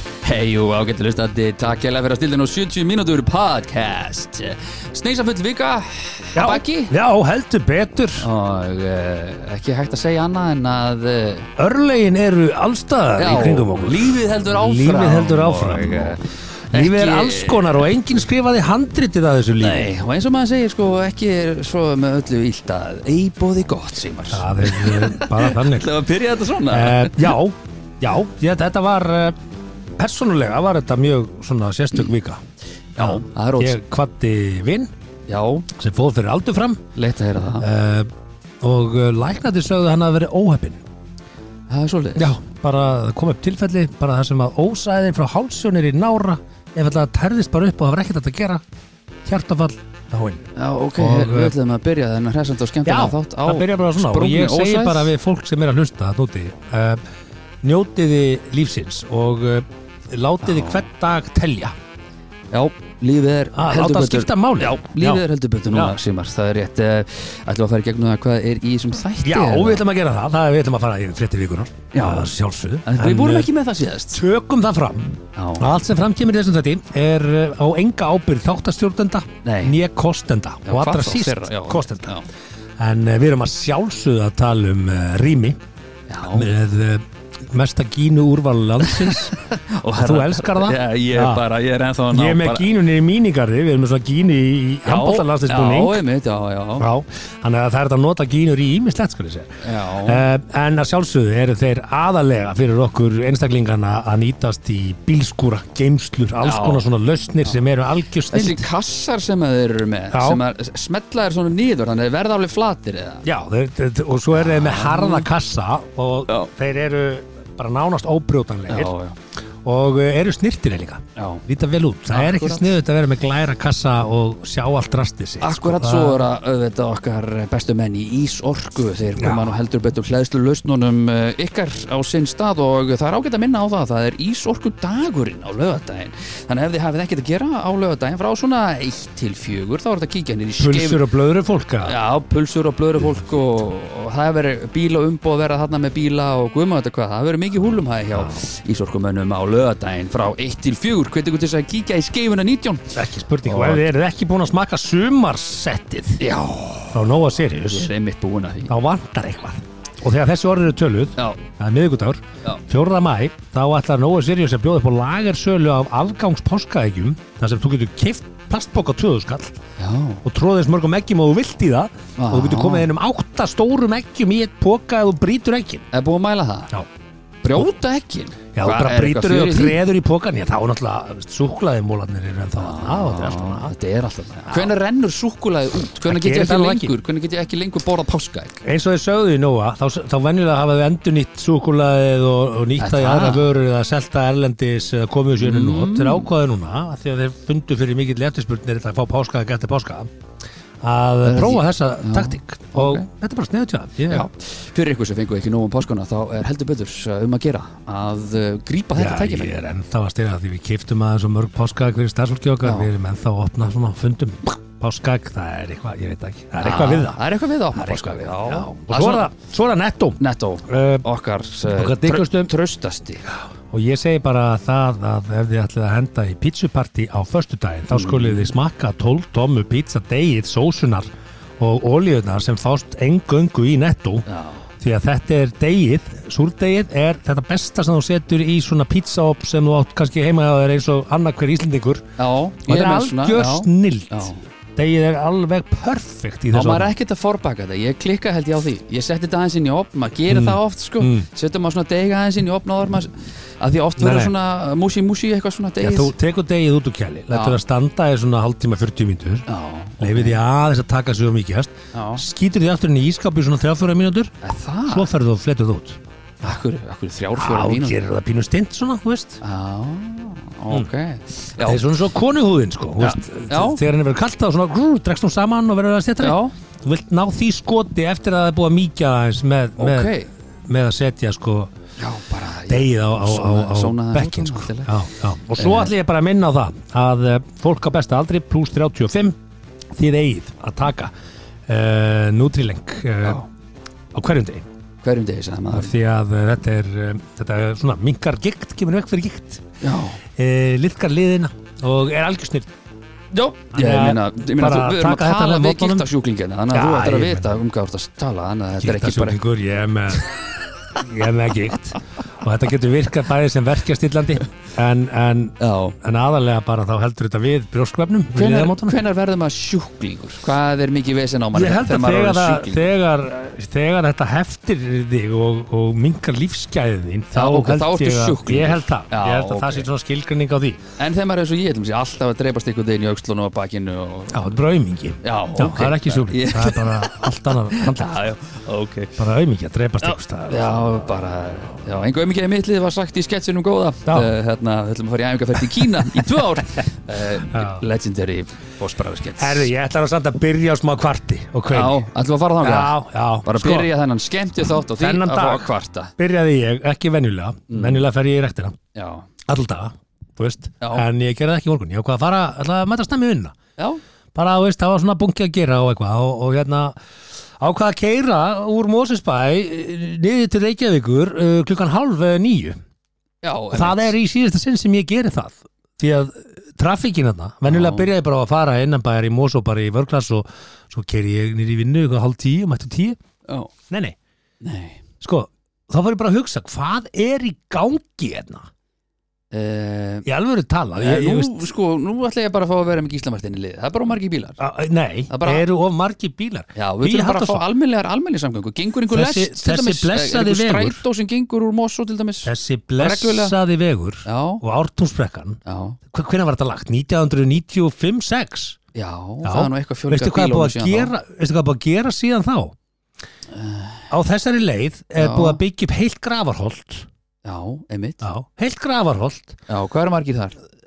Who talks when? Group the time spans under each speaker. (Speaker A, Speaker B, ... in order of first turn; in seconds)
Speaker A: 0.2-6.9, 8.2-11.5, 13.2-17.9, 19.6-27.4, 33.0-33.8, 35.3-35.7, 36.9-37.7, 41.7-42.3, 50.5-55.1, 60.4-60.9, 62.5-69.8, 71.9-72.3, 72.8-74.2, 75.3-75.7, 79.4-79.8, 80.6-82.2, 86.1-86.5, 88.8-92.7, 94.8-96.9, 99.6-100.3, 106.4-106.8, 108.3-113.2, 114.3-115.3, 118.7-119.2, 121.2-121.4, 122.1-122.8, 125.4-141.0, 141.8-153.9, 156.2-158.7, 161.2-161.4, 169.8-170.2, 172.2-172.9, 175.9-176.7, 177.4-179.8, 182.6-188.6, 192.8-193.5, 195.4-196.3, 201.2-203.1, 204.1-209.6, 212.6-212.9, 216.6-219.3, 220.2-223.2, 227.9-228.5, 234.3-234.6, 242.2-244.4, 246.5-256.1, 257.3-257.6, 259.5-260.4, 261.9-262.2, 264.4-265.1, 266.4-268.0, 269.4-271.9, 273.0-273.8, 276.2-276.5, 279.8-280.3, 282.0-285.0, 285.5-285.9, 295.0-295.9, 299.8-300.2, 303.3-309.4, 315.6-315.9, 318.3-322.9, 327.3-329.9, 331.0-334.6, 335.2-339.2, 340.0-349.7, 351.7-356.1, 357.7-358.1, 358.9-359.3, 373.4-374.1, 377.6-378.1, 383.4-383.7, 384.6-385.0, 389.5-390.2, 390.9-394.6, 395.3-395.6, 396.7-403.6, 404.2-404.6, 405.6-406.0, 408.9-411.1, 413.5-414.1, 415.2-415.6, 417.4-418.2, 419.7-420.6
Speaker B: 6.3-8.3, 11.6-19.9, 24.3-26.0, 26.7-29.4, 30.0-32.4, 33.0-34.9, 35.7-36.8, 37.6-38.1, 38.6-40.8, 42.1-48.6, 49.2-51.5, 52.8-57.0, 57.6-61.7, 63.5-66.0, 69.2-73.5, 74.1-82.2, 82.8-85.6, 86.3-91.4, 92.1-96.0, 96.8-108.7, 110.1-110.4, 113.2-118.9, 119.6-126.2, 129.2-129.5, 140.6-141.9, 148.1-148.4, 152.9-156.2, 156.9-157.9, 158.7-169.6, 170.2-175.9, 178.5-183.7, 186.0-186.9, 188.6-200.1, 200.8-204.3, 208.9-217.2, 217.7-221.1, 221.7-222.5, 223.3-231.1, 231.6-234.3, 234.8-242.1, 242.7-246.9, 250.3-251.3, 254.0-254.3, 255.8-259.5, 260.0-264.3, 264.9-266.5, 267.4-269.4, 271.6-280.1, 280.7-281.7, 282.7-289.4, 289.9-291.1, 291.7-293.4, 294.1-294.7, 295.7-299.8, 300.3-302.7, 303.7-306.1, 306.7-307.6, 308.8-310.4, 310.9-319.0, 321.5-330.8, 334.3-338.2, 339.2-340.9, 344.1-344.3, 347.4-347.8, 349.4-352.0, 352.6-353.9, 355.0-358.8, 359.4-363.6, 364.3-366.9, 367.6-372.8, 373.7-383.2, 383.9-384.2, 385.2-388.7, 390.2-391.7, 394.6-397.6, 399.1-401.0, 402.4-408.8, 409.4-412.7, 414.1-417.1, 418.2-419.6